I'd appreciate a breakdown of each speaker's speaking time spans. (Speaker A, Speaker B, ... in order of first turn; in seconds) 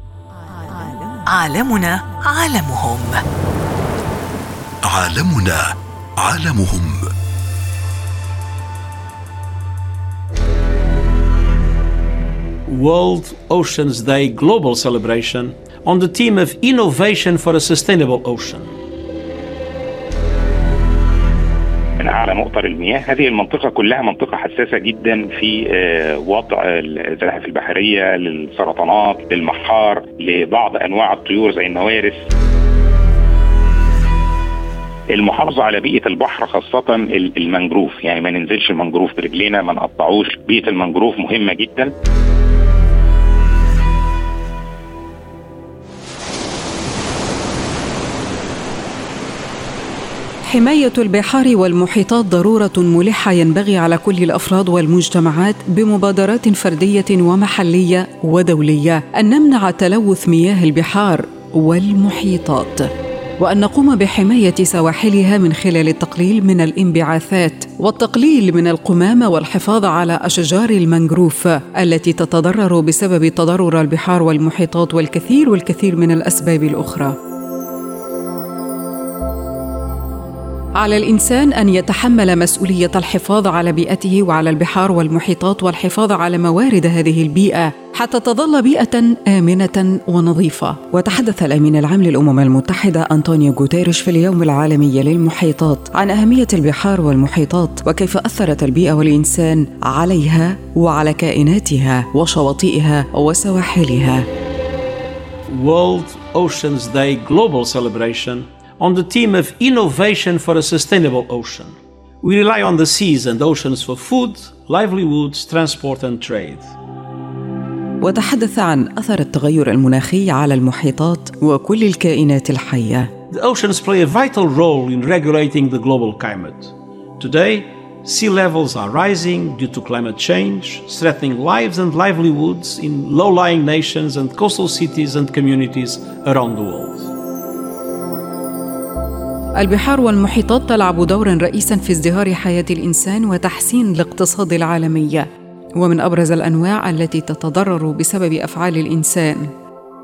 Speaker A: 1.3-3.2
Speaker B: 4.8-7.1
Speaker C: 12.7-18.8, 105.5-116.8, 123.3-137.1
Speaker D: 22.0-32.3, 35.1-41.9
Speaker E: 50.5-77.2, 80.8-104.3, 118.0-123.1, 139.6-149.5